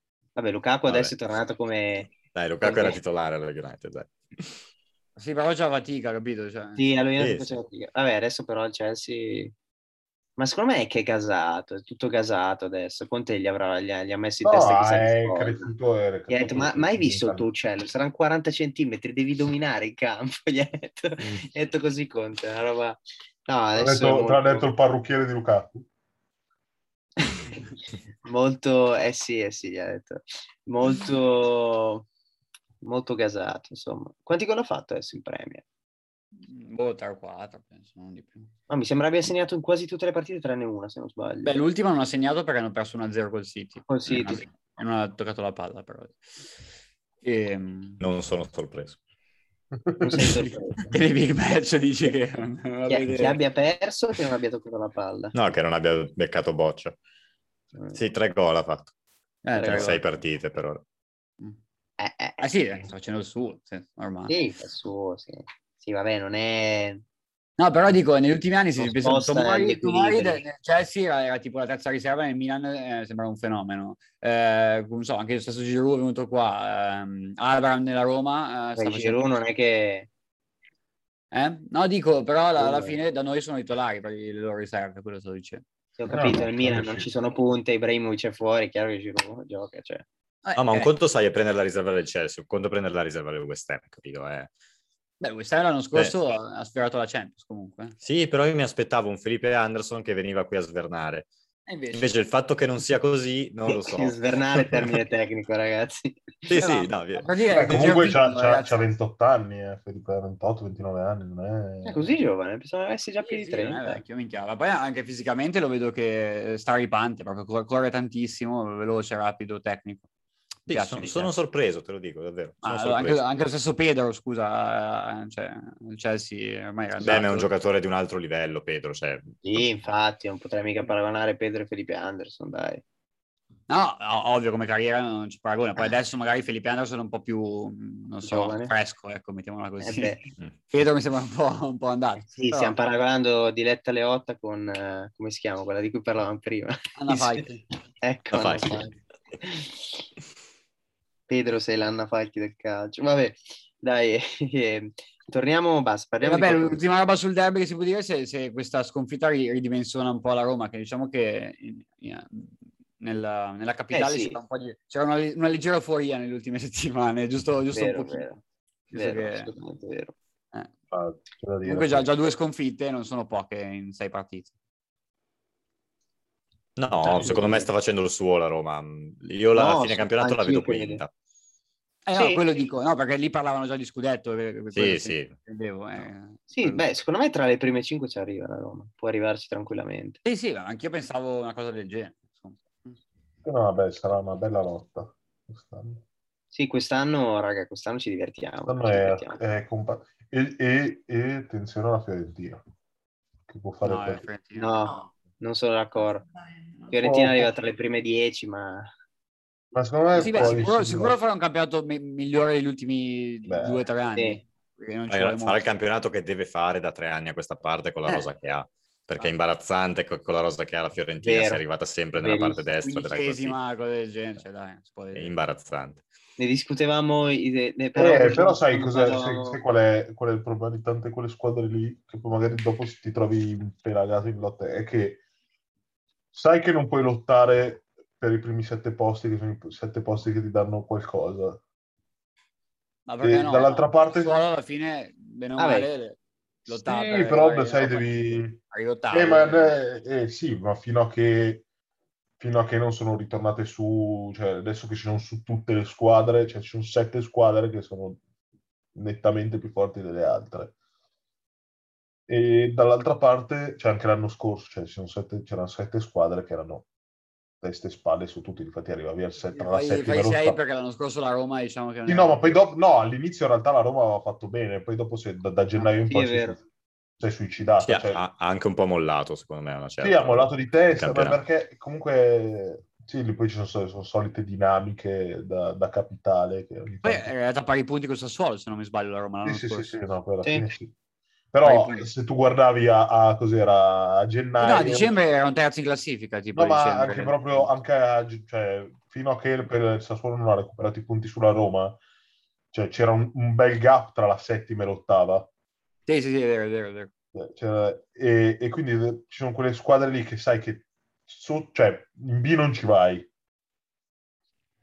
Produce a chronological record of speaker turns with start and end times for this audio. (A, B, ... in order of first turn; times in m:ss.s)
0:00.4-0:03.0 A
0:00.8-0:01.1 B
0:02.3-0:04.5 B
0:05.2-0:06.8 C
0:06.8-0:09.5 A
0:07.2-0:07.6 B
0:10.4-0:15.7 A
0:14.4-0:17.4 D
0:16.3-0:24.7 A
0:23.7-0:25.9 D
0:28.2-0:32.1 A
0:32.8-0:35.6 A
0:36.4-0:38.5 C
0:38.7-0:41.5 A
0:41.4-0:46.2 C
0:43.9-0:44.4 A
0:47.2-0:48.0 C
0:48.0-0:49.0 B
0:49.8-0:50.3 D
0:50.0-0:50.9 A
0:50.2-0:53.4 C
0:52.9-0:55.3 A
0:55.3-0:57.0 B
0:57.9-0:58.9 B
0:59.4-1:00.0 C
0:59.6-1:00.8 B
0:59.6-0:59.9 A
1:02.0-1:02.5 A
1:02.4-1:04.4 C
1:04.3-1:07.0 A
1:07.6-1:19.2 C
1:08.8-1:10.4 A
1:18.8-1:20.1 A
1:21.3-1:25.6 C
1:22.6-1:22.9 A
1:26.0-1:30.0 A
1:26.1-1:27.1 D
1:30.4-1:30.9 C
1:30.6-1:34.5 B
1:35.2-1:38.0 C
1:38.0-1:41.3 B
1:41.7-1:42.1 C
1:41.9-1:44.9 B
1:43.7-1:46.3 A
1:46.5-1:47.3 B
1:46.5-1:48.8 C
1:47.5-1:52.1 D
1:51.8-1:54.0 A
1:53.2-2:00.1 C
2:00.7-2:01.3 C
2:00.7-2:03.2 B
2:02.6-2:07.5 C
2:07.0-2:09.6 B
2:09.4-2:12.8 A
2:13.7-2:20.2 C
2:18.2-2:18.7 A
2:19.8-2:20.2 A
2:20.7-2:22.8 C
2:22.3-2:27.4 A
2:27.0-2:27.6 C
2:28.0-2:30.0 A
2:28.3-2:28.9 B
2:31.3-2:36.8 A
2:36.2-2:48.3 C
2:43.9-2:44.4 A
2:47.7-2:48.4 A
2:48.9-2:49.5 C
2:48.9-2:50.1 A
2:50.9-2:52.3 D
2:51.6-2:54.5 C
2:56.8-3:01.1 B
2:57.1-2:57.4 C
2:57.2-2:57.6 A
2:59.5-3:01.0 A
3:02.1-3:06.8 C
3:02.1-3:02.4 A
3:04.7-3:05.3 B
3:06.5-3:10.2 A
3:10.2-3:13.0 C
3:13.4-3:16.0 D
3:16.5-3:19.4 A
3:18.6-3:22.6 D
3:23.5-3:24.3 D
3:23.8-3:24.9 C
3:24.6-3:26.3 A
3:26.9-3:28.9 A
3:27.0-3:27.5 D
3:29.7-3:31.2 D
3:30.1-3:35.6 C
3:33.4-3:33.8 D
3:35.1-3:43.6 B
3:41.2-3:41.6 A
3:42.1-3:42.6 A
3:42.8-3:45.3 C
3:45.1-3:46.0 B
3:46.4-3:49.6 A
3:47.9-3:55.2 D
3:56.3-4:01.6 D
4:03.1-4:09.8 C
4:03.2-4:04.4 D
4:05.6-4:05.9 A
4:06.7-4:08.6 D
4:09.1-4:11.6 D
4:12.4-4:18.2 D
4:18.9-4:20.7 D
4:22.3-4:26.8 D
4:27.6-4:30.6 D
4:29.5-4:32.6 C
4:32.1-4:36.6 D
4:35.8-4:36.6 A
4:37.2-4:38.2 D
4:37.8-4:41.4 B
4:40.0-4:47.3 D
4:47.0-4:50.0 C
4:49.4-4:50.9 D
4:50.4-4:50.7 A
4:51.5-4:55.2 D
4:51.6-4:52.1 C
4:54.6-4:57.7 C
4:56.5-5:02.0 D
5:02.7-5:05.5 D
5:06.1-5:07.1 C
5:07.4-5:13.3 D